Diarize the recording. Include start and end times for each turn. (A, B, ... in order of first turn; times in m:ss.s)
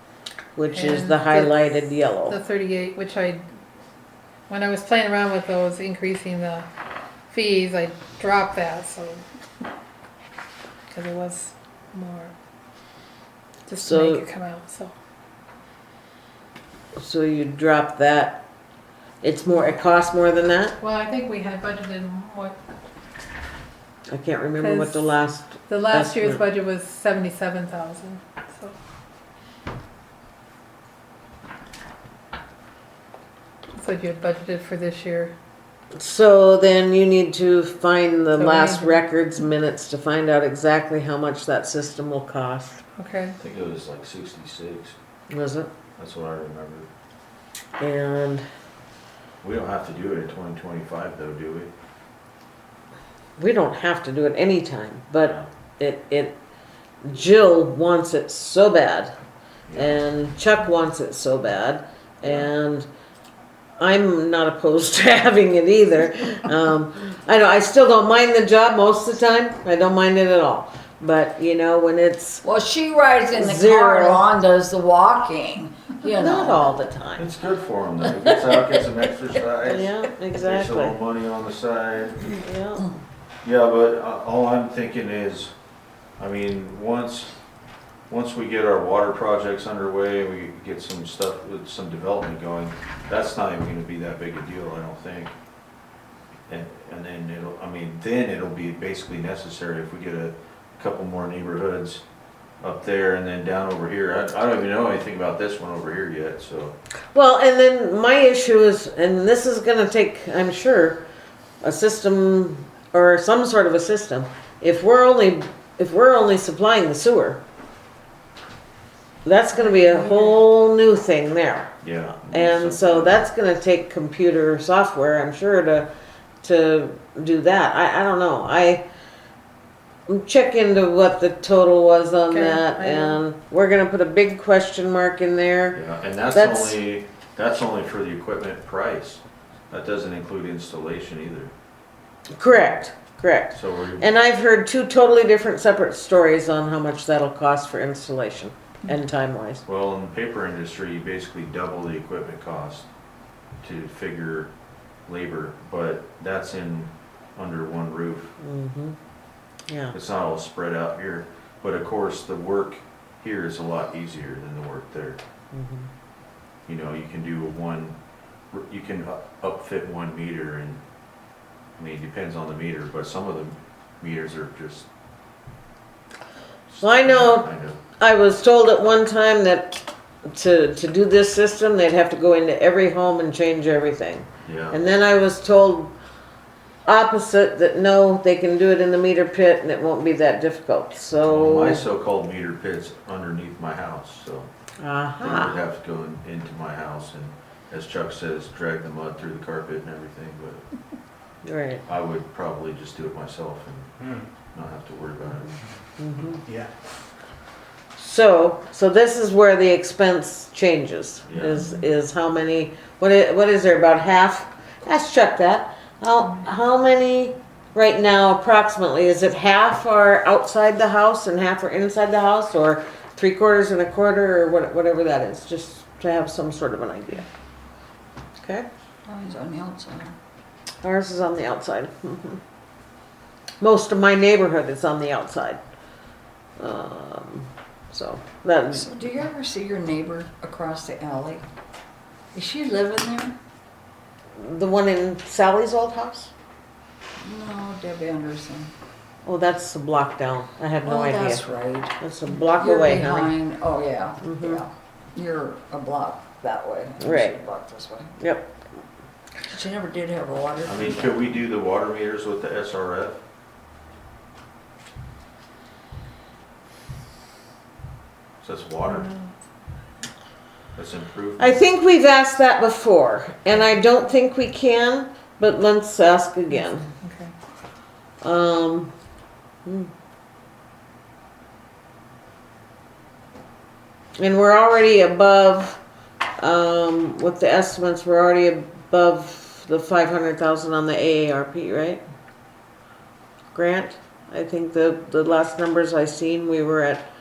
0:00.6-0:02.4 A
0:00.7-0:03.4 B
0:04.5-0:06.7 B
0:07.3-0:09.2 B
0:10.9-0:12.3 B
0:13.7-0:14.9 B
0:13.8-0:14.2 A
0:17.0-0:18.4 A
0:19.2-0:20.8 A
0:20.8-0:22.6 B
0:24.1-0:26.4 A
0:24.6-0:25.1 B
0:25.7-0:28.8 B
0:33.8-0:35.3 B
0:36.0-0:42.8 A
0:38.4-0:39.0 B
0:43.0-0:43.4 B
0:43.4-0:45.0 C
0:45.3-0:45.7 A
0:46.0-0:46.9 C
0:47.8-0:48.4 A
0:49.4-0:51.7 C
0:53.4-0:56.4 A
0:57.0-0:59.1 A
0:59.7-1:00.0 C
0:59.8-1:02.9 A
1:03.8-1:12.4 A
1:12.4-1:16.8 D
1:13.4-1:14.3 A
1:16.2-1:17.2 A
1:17.2-1:22.3 C
1:19.6-1:21.0 A
1:22.2-1:23.0 A
1:23.4-1:25.5 C
1:26.2-1:27.3 C
1:28.1-1:35.3 C
1:36.5-1:42.0 C
1:42.6-1:46.8 C
1:47.1-1:51.0 A
1:51.6-1:57.4 A
1:59.2-2:01.8 A
1:59.6-2:00.4 B
2:01.8-2:03.2 C
2:02.3-2:05.9 A
2:06.4-2:08.8 A
2:10.1-2:15.8 A
2:12.3-2:13.2 B
2:15.7-2:21.5 C
2:16.3-2:16.8 A
2:22.4-2:29.6 A
2:23.5-2:24.1 C
2:29.6-2:32.9 C
2:33.6-2:34.5 C
2:35.1-2:38.4 C
2:38.4-2:39.0 A
2:39.7-2:40.0 A
2:39.9-2:45.2 C
2:45.5-2:45.9 A
2:46.7-2:48.0 C
2:48.5-2:50.8 C
2:51.8-2:54.9 C
2:56.7-2:57.8 C
2:56.8-3:05.9 A
3:04.4-3:04.8 C
3:06.9-3:11.8 A
3:11.3-3:14.5 C
3:14.8-3:15.5 A
3:15.2-3:20.6 C
3:21.4-3:21.8 A
3:21.9-3:23.9 C
3:24.5-3:25.5 C
3:26.0-3:26.4 A
3:28.0-3:47.3 A
3:31.3-3:31.6 C
3:48.4-3:48.7 A
3:49.1-3:50.1 D
3:50.8-3:52.4 A
3:53.6-3:55.6 A
3:56.6-3:58.9 A
3:58.7-4:01.4 D
4:02.4-4:03.4 D
4:04.4-4:06.3 A
4:07.2-4:08.7 D
4:09.2-4:11.4 A
4:10.8-4:18.1 D
4:12.0-4:13.3 A
4:14.2-4:14.6 A
4:17.0-4:17.4 A
4:18.2-4:18.6 A
4:19.5-4:21.4 D
4:20.6-4:23.2 C
4:28.4-4:29.1 C
4:28.8-4:29.3 B
4:30.8-4:31.6 C
4:31.4-4:36.9 A
4:36.5-4:37.3 B
4:38.2-4:38.9 A
4:39.6-4:39.9 A
4:44.2-4:45.8 A
4:46.4-4:52.0 A
4:53.5-4:57.1 A